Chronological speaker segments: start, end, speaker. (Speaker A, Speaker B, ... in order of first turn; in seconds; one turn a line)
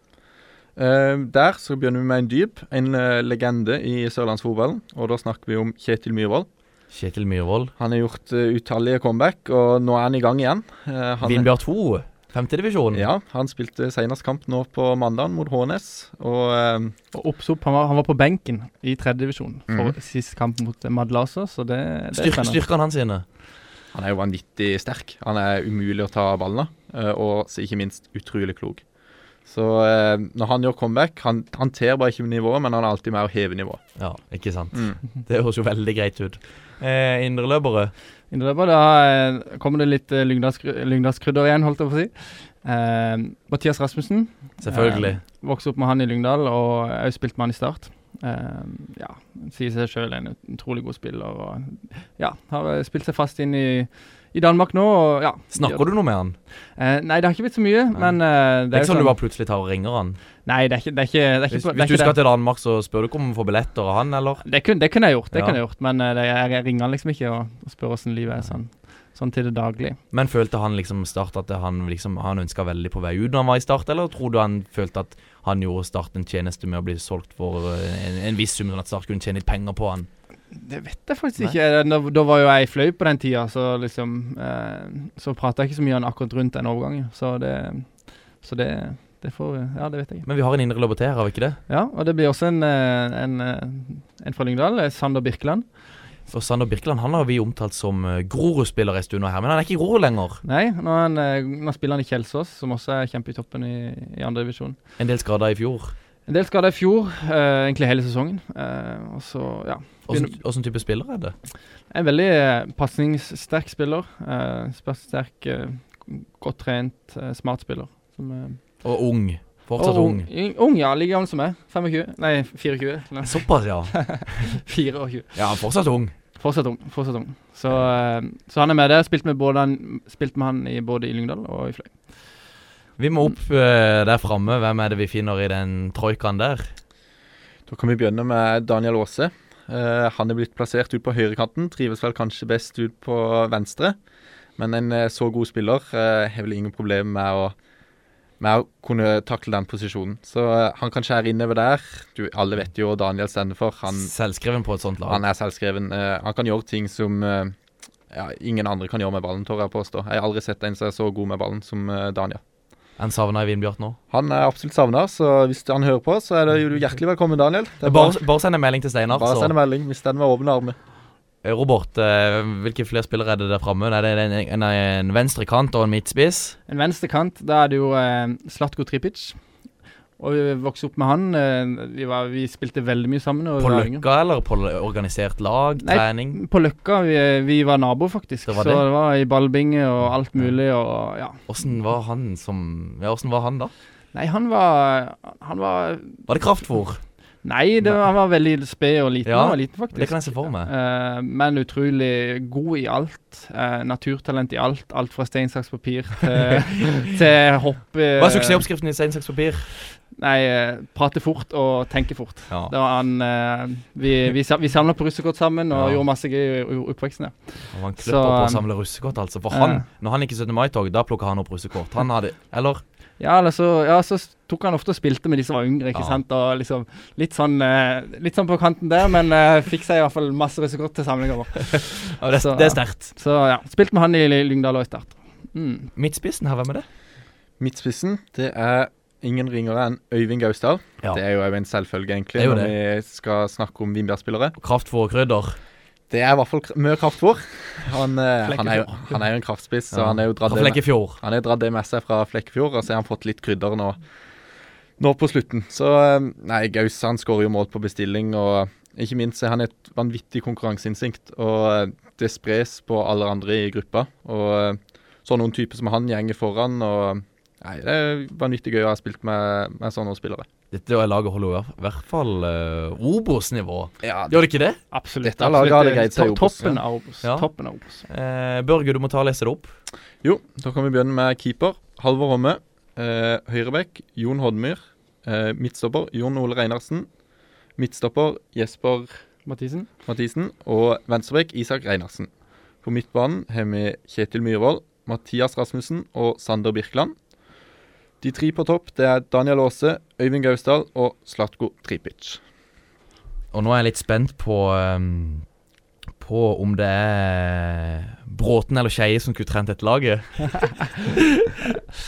Speaker A: 0.8-6.5
Speaker B: 6.9-7.7
Speaker A: 7.8-11.5
Speaker B: 11.2-13.0
Speaker A: 12.9-16.9
Speaker C: 17.1-22.6
Speaker A: 19.7-19.9
Speaker B: 22.1-23.2
Speaker A: 23.9-28.8
Speaker A: 29.4-33.8
Speaker B: 34.0-37.9
Speaker C: 38.3-55.9
Speaker B: 44.6-45.2
Speaker B: 55.5-56.4
Speaker C: 56.8-59.2
Speaker B: 58.7-60.2
Speaker C: 60.5-62.1
Speaker B: 61.5-64.4
Speaker C: 64.4-70.0
Speaker B: 65.3-65.6
Speaker B: 70.1-80.1
Speaker C: 80.5-90.2
Speaker B: 90.2-91.6
Speaker C: 91.7-95.7
Speaker B: 96.3-100.4
Speaker C: 100.4-104.8
Speaker B: 105.0-105.9
Speaker C: 106.3-110.3
Speaker B: 110.1-111.3
Speaker C: 111.9-118.6
Speaker B: 118.8-120.3
Speaker C: 119.8-125.4
Speaker B: 123.2-124.6
Speaker B: 125.3-126.1
Speaker C: 126.4-131.9
Speaker B: 133.0-136.7
Speaker A: 137.7-144.0
Speaker A: 144.6-147.5
Speaker A: 148.4-154.1
Speaker B: 153.9-155.2
Speaker A: 155.1-157.5
Speaker A: 158.1-162.4
Speaker B: 163.0-164.0
Speaker A: 164.1-168.2
Speaker B: 167.8-169.5
Speaker A: 169.1-170.8
Speaker B: 171.4-176.6
Speaker C: 176.7-179.4
Speaker C: 180.2-184.0
Speaker B: 183.6-186.4
Speaker C: 185.8-191.4
Speaker B: 188.5-188.8
Speaker B: 191.5-193.7
Speaker C: 194.1-196.2
Speaker B: 196.3-197.0
Speaker C: 197.4-208.6
Speaker B: 197.8-198.1
Speaker B: 199.2-200.7
Speaker B: 208.2-209.7
Speaker C: 210.1-218.6
Speaker B: 215.7-216.0
Speaker B: 217.7-222.8
Speaker C: 219.5-219.8
Speaker C: 223.2-235.9
Speaker B: 231.7-233.1
Speaker B: 235.9-236.8
Speaker A: 237.6-244.5
Speaker B: 242.3-242.7
Speaker B: 244.6-245.6
Speaker A: 246.1-254.0
Speaker B: 249.9-251.2
Speaker A: 255.0-270.5
Speaker B: 270.7-274.8
Speaker A: 274.0-274.4
Speaker C: 274.9-278.0
Speaker A: 275.2-276.8
Speaker B: 278.1-279.7
Speaker A: 280.2-287.1
Speaker A: 287.8-289.2
Speaker C: 289.4-289.9
Speaker A: 290.1-292.3
Speaker A: 292.8-297.1
Speaker A: 298.2-302.4
Speaker B: 303.5-305.4
Speaker B: 306.2-311.5